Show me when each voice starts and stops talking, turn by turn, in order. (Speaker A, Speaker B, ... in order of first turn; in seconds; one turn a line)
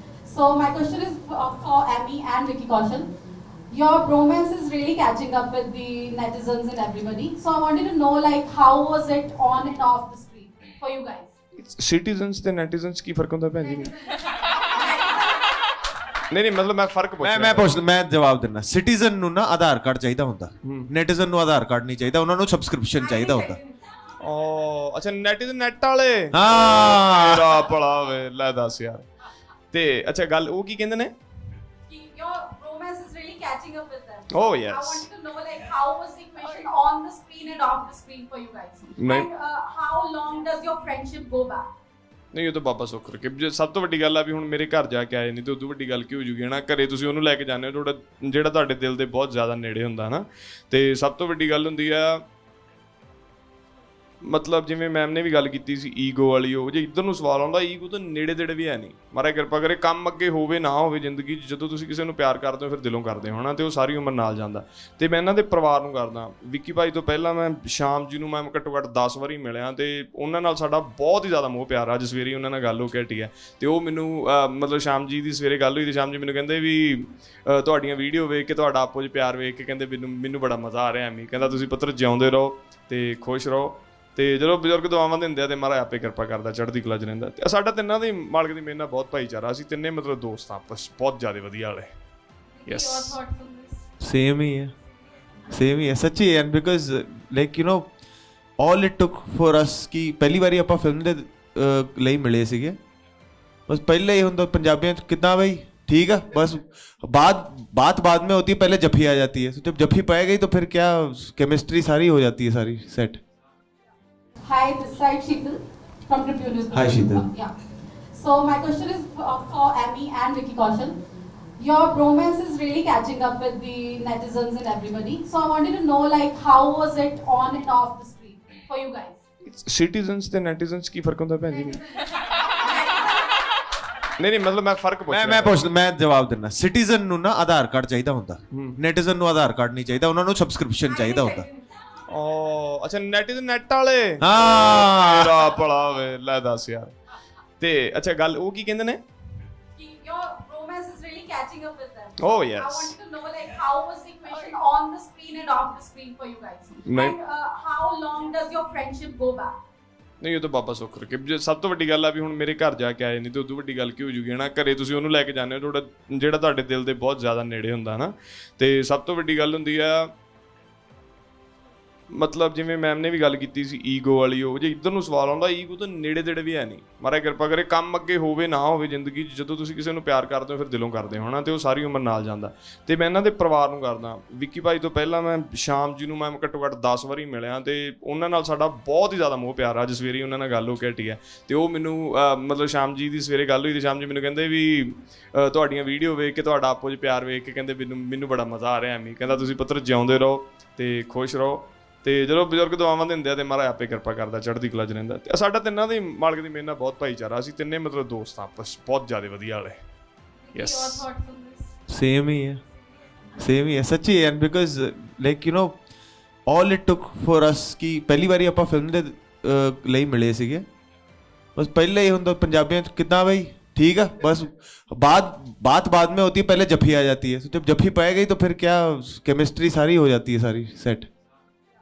Speaker A: 0.2-3.1
Speaker A: 3.7-11.3
Speaker B: 11.6-14.0
Speaker A: 14.1-15.5
Speaker B: 16.3-17.7
Speaker C: 17.2-23.6
Speaker B: 20.6-20.9
Speaker A: 23.0-24.1
Speaker B: 24.2-29.1
Speaker C: 26.3-27.5
Speaker B: 29.7-31.1
Speaker A: 31.9-41.7
Speaker B: 34.3-35.0
Speaker B: 39.0-39.3
Speaker B: 42.3-52.2
Speaker B: 54.2-91.9
Speaker A: 92.5-93.9
Speaker B: 92.7-93.2
Speaker C: 94.0-94.7
Speaker C: 95.5-97.9
Speaker C: 98.6-102.8
Speaker C: 103.7-113.2
Speaker A: 114.5-117.5
Speaker C: 116.7-117.2
Speaker A: 118.1-121.0
Speaker A: 121.6-129.2
Speaker B: 129.5-131.8
Speaker A: 131.5-133.4
Speaker B: 134.2-135.6
Speaker C: 135.1-141.5
Speaker B: 138.5-138.8
Speaker A: 140.8-142.0
Speaker B: 142.1-146.9
Speaker C: 144.2-145.4
Speaker B: 147.6-149.0
Speaker A: 149.8-159.6
Speaker B: 152.2-152.9
Speaker B: 156.9-157.2
Speaker B: 160.2-170.1
Speaker B: 172.1-209.8
Speaker A: 210.4-211.8
Speaker B: 210.6-211.1
Speaker C: 211.9-212.6
Speaker C: 213.4-215.8
Speaker C: 216.5-220.7
Speaker C: 221.6-231.1